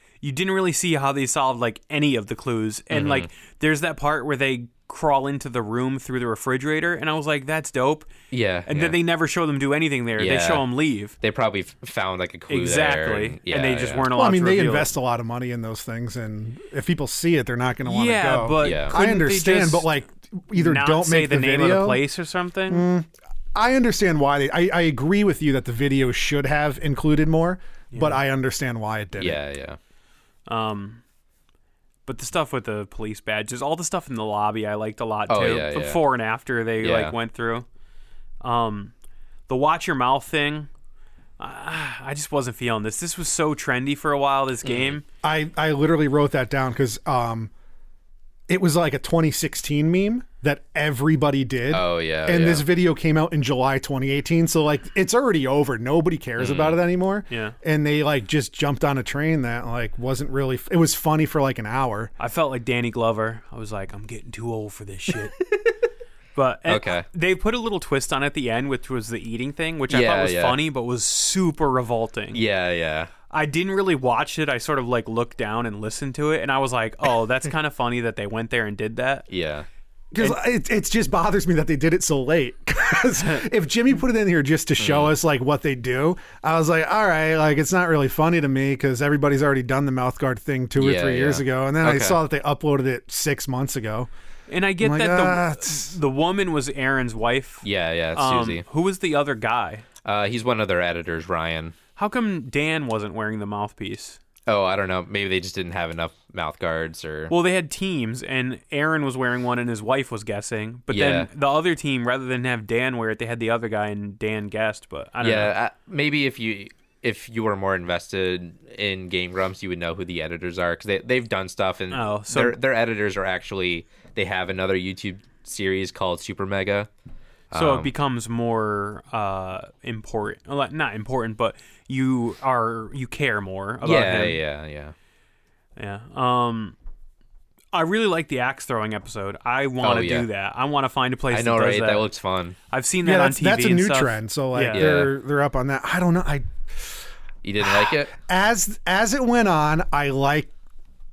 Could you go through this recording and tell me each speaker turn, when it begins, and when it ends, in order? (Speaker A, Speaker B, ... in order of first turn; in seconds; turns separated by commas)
Speaker A: 0.2-8.1, Speaker B: 2.9-3.3, Speaker B: 8.3-8.9, Speaker A: 8.7-11.1, Speaker B: 10.2-10.6, Speaker B: 11.2-14.1, Speaker A: 12.5-14.9, Speaker C: 14.1-22.0, Speaker A: 17.9-19.9, Speaker B: 18.6-18.9, Speaker A: 20.6-22.9, Speaker C: 22.7-29.4, Speaker A: 27.9-28.2, Speaker B: 29.2-29.8, Speaker A: 30.5-31.0, Speaker A: 32.0-37.7, Speaker B: 35.3-36.0, Speaker B: 36.8-37.1, Speaker A: 38.4-38.9, Speaker A: 39.5-40.7, Speaker A: 41.4-45.0, Speaker B: 44.6-45.0, Speaker C: 45.2-47.5, Speaker C: 48.5-62.1, Speaker B: 51.7-52.7, Speaker B: 56.4-56.8, Speaker A: 57.3-57.5, Speaker A: 62.2-65.4, Speaker A: 66.4-72.4, Speaker B: 66.7-67.0, Speaker B: 69.9-70.6, Speaker B: 72.3-73.1, Speaker A: 73.3-79.3, Speaker B: 79.3-79.7, Speaker C: 80.1-94.1, Speaker B: 84.8-85.1, Speaker B: 90.8-92.2, Speaker A: 94.5-99.8, Speaker C: 94.8-96.0, Speaker B: 97.6-98.6, Speaker B: 100.0-101.7, Speaker A: 102.0-104.2, Speaker B: 104.5-107.3, Speaker A: 107.3-115.5, Speaker B: 110.9-111.3, Speaker B: 115.2-126.9, Speaker A: 121.9-122.6, Speaker B: 127.5-127.9, Speaker A: 127.5-134.4, Speaker B: 133.8-134.9, Speaker A: 135.8-136.7, Speaker A: 137.7-142.1, Speaker B: 139.8-140.3, Speaker B: 141.3-142.6, Speaker A: 142.7-144.8, Speaker C: 143.0-147.0, Speaker B: 144.7-145.1, Speaker B: 147.4-148.1, Speaker C: 147.6-150.5